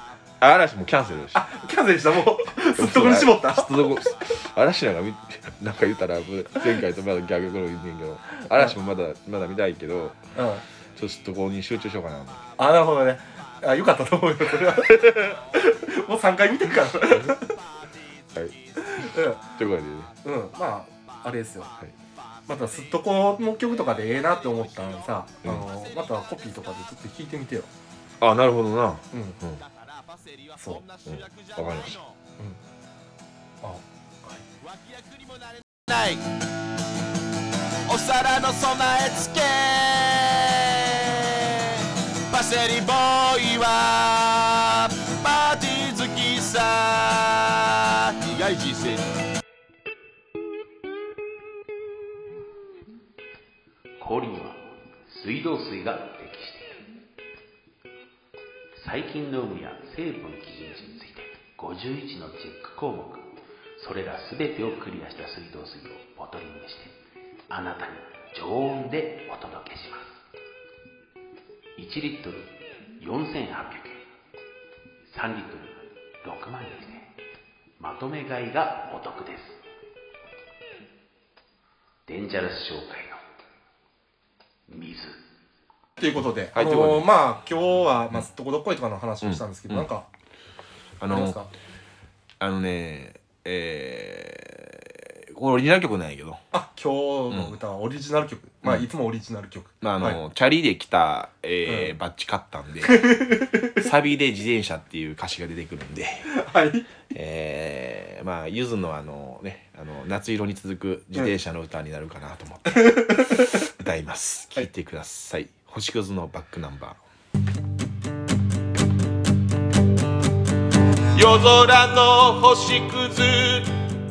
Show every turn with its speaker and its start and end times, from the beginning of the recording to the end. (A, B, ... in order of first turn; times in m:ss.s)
0:00.4-0:01.5 A
0:01.3-0:03.8 B
0:02.7-0:10.2 A
0:10.4-0:10.6 B
0:11.0-0:12.5 A
0:12.6-0:17.6 B
0:14.9-0:15.3 A
0:18.8-0:19.4 B
0:19.5-0:20.1 A
0:20.2-0:21.7 B
0:22.5-0:27.7 B
0:28.2-0:29.6 A
0:29.1-0:29.4 B
0:29.8-0:32.2 C
0:30.6-0:30.8 B
0:31.1-0:32.0 A
0:33.6-0:34.4 B
0:34.6-0:36.3 C
0:37.9-0:49.2 C
0:54.0-0:56.9 D
0:58.8-1:07.0 D
1:07.5-1:10.2 D
1:11.8-1:14.0 D
1:15.1-1:17.1 D
1:17.8-1:19.6 D
1:22.1-1:23.2 D
1:24.7-1:25.2 D
1:26.0-1:30.1 B
1:26.5-1:27.1 A
1:29.2-1:29.9 A
1:31.0-1:31.4 A
1:31.1-1:31.5 B
1:32.4-1:36.4 A
1:36.5-1:40.2 B
1:37.3-1:37.6 A
1:39.8-1:43.1 A
1:41.7-1:41.9 B
1:42.8-1:43.9 B
1:43.7-1:46.3 A
1:46.3-1:46.9 B
1:47.1-1:57.0 A
1:52.8-1:53.5 B
2:01.1-2:03.7 C